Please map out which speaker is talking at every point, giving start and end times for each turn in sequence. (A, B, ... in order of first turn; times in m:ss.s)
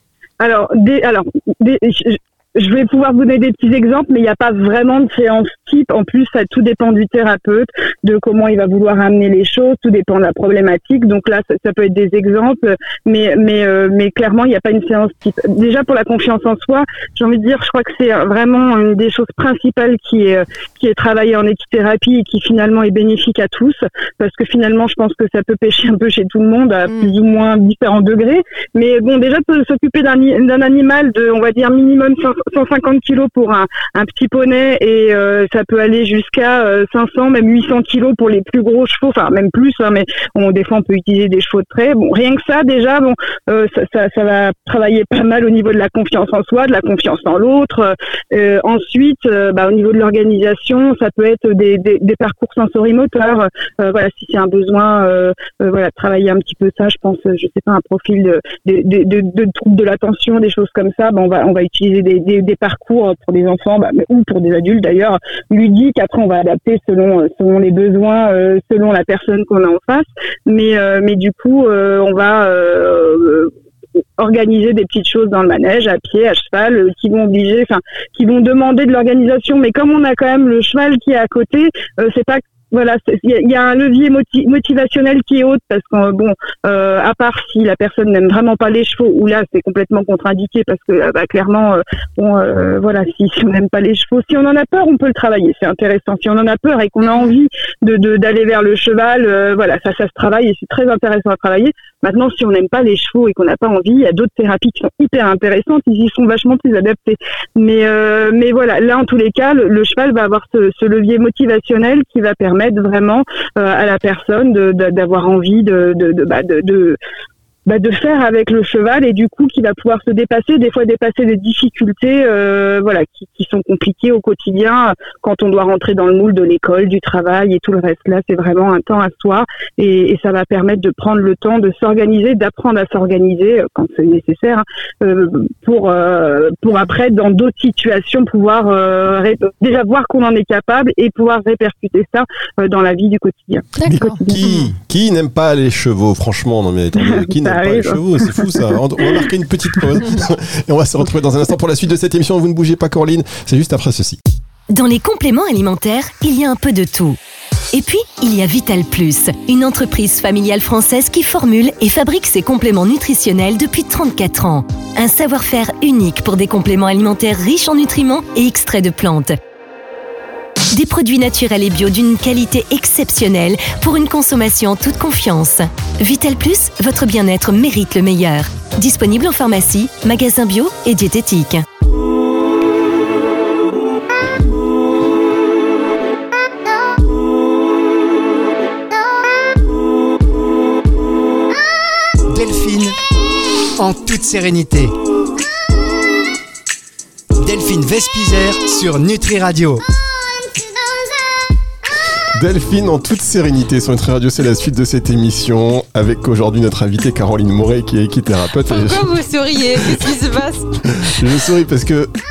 0:00.4-1:13.5 A
0:26.9-0:27.1 B
1:14.2-1:57.0 A
1:37.1-1:37.3 B
1:57.7-2:24.5 A
2:23.8-2:24.7 B
2:23.9-2:34.2 C
2:27.0-2:29.2 A
2:34.7-2:37.2 D
2:37.7-2:49.4 D
2:50.7-3:01.6 D
3:12.3-3:13.0 E
3:13.8-3:14.9 E
3:17.4-3:19.8 E
3:22.4-3:29.1 C
3:28.7-3:31.2 B
3:29.8-3:30.2 C
3:31.0-3:32.1 C